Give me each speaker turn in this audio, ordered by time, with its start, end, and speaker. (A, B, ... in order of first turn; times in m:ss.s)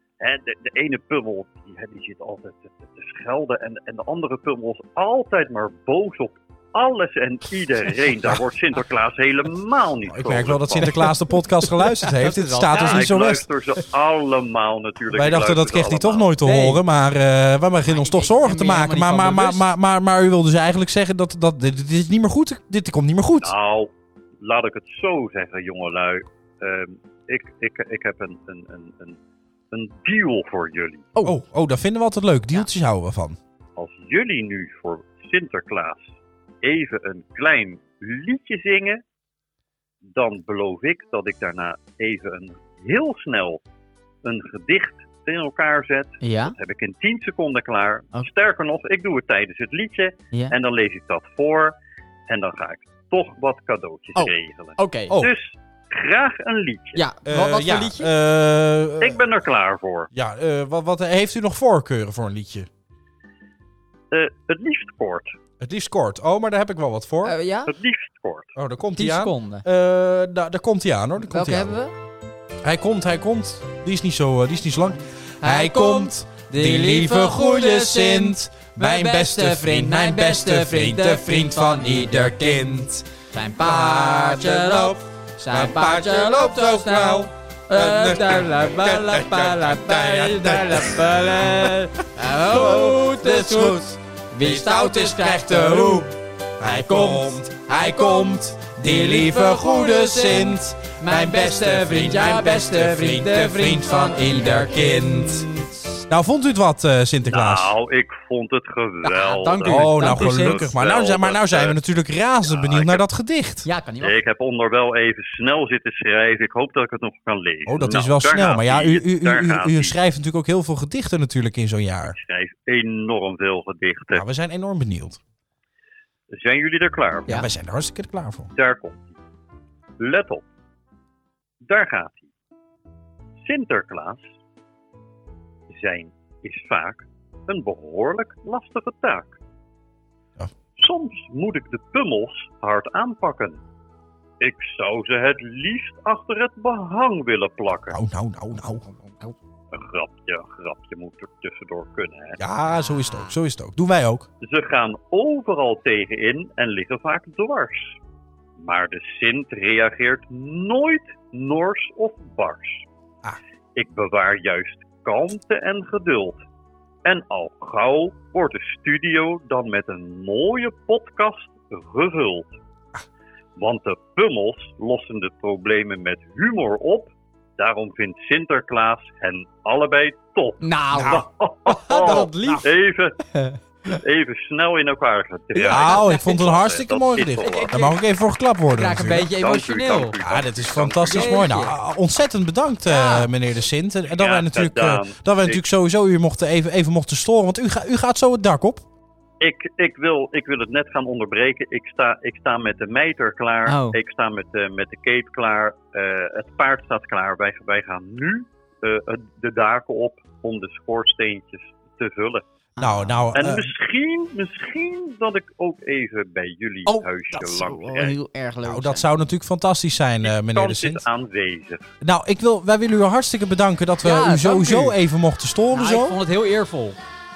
0:00.2-0:10.9 A
0:10.1-0:13.4 B
0:11.6-0:13.1 C
0:12.7-0:16.3 A
0:15.1-0:23.5 B
0:16.4-0:16.8 C
0:17.9-0:19.7 C
0:23.4-0:23.9 A
0:24.4-0:29.2 A
0:29.7-0:31.1 A
0:31.2-0:33.4 B
0:33.8-0:36.0 A
0:36.6-0:39.0 A
0:40.1-0:43.6 A
0:44.2-0:51.7 A
0:46.2-0:46.6 C
0:52.3-0:57.0 A
0:54.2-0:55.1 C
0:56.9-0:58.1 C
0:57.2-0:59.2 B
0:59.0-1:00.1 A
1:00.1-1:02.7 B
1:04.1-1:05.3 A
1:05.6-1:07.4 B
1:07.2-1:07.7 C
1:07.7-1:08.5 A
1:08.5-1:11.7 B
1:09.0-1:09.6 C
1:11.3-1:11.9 C
1:12.6-1:23.0 B
1:15.4-1:22.4 C
1:23.3-1:36.1 C
1:23.6-1:45.5 B
1:36.6-1:45.6 C
1:46.1-1:47.7 B
1:47.2-1:51.8 A
1:49.0-1:50.6 C
1:49.7-1:53.6 B
1:52.4-1:53.0 A
1:53.6-1:54.2 C
1:54.0-2:00.0 A
1:57.7-2:02.2 B
2:02.1-2:04.2 A
2:04.1-2:05.2 B
2:06.3-2:07.4 A
2:07.3-2:08.5 B
2:08.5-2:09.0 A
2:10.0-2:10.4 A
2:11.7-2:12.3 A
2:13.4-2:14.2 A
2:15.7-2:19.3 A
2:20.8-2:23.6 A
2:24.4-2:28.0 A
2:27.9-2:28.9 B
2:29.7-2:32.4 A
2:32.4-2:34.3 B
2:32.7-2:33.4 C
2:34.4-2:37.9 A
2:38.6-2:42.8 A
2:43.8-2:46.4 A
2:47.0-2:52.5 A
2:53.6-3:03.2 A
3:00.6-3:02.6 C
3:00.9-3:01.2 B
3:01.9-3:02.6 B
3:03.3-3:04.0 C
3:04.0-3:07.8 A
3:05.5-3:06.3 C
3:05.7-3:09.3 B
3:07.4-3:08.0 C
3:08.7-3:10.2 C
3:09.2-3:11.5 A
3:10.2-3:18.8 B
3:11.1-3:11.7 C
3:12.8-3:13.3 C
3:14.1-3:15.6 A
3:19.4-3:32.4 A
3:23.6-3:24.0 C
3:32.8-3:33.2 C
3:32.8-3:33.7 B
3:33.3-3:38.2 A
3:36.8-3:39.1 C
3:38.6-3:41.0 B
3:40.2-3:41.9 A
3:42.0-3:46.2 B
3:44.0-3:45.0 C
3:45.7-3:47.0 C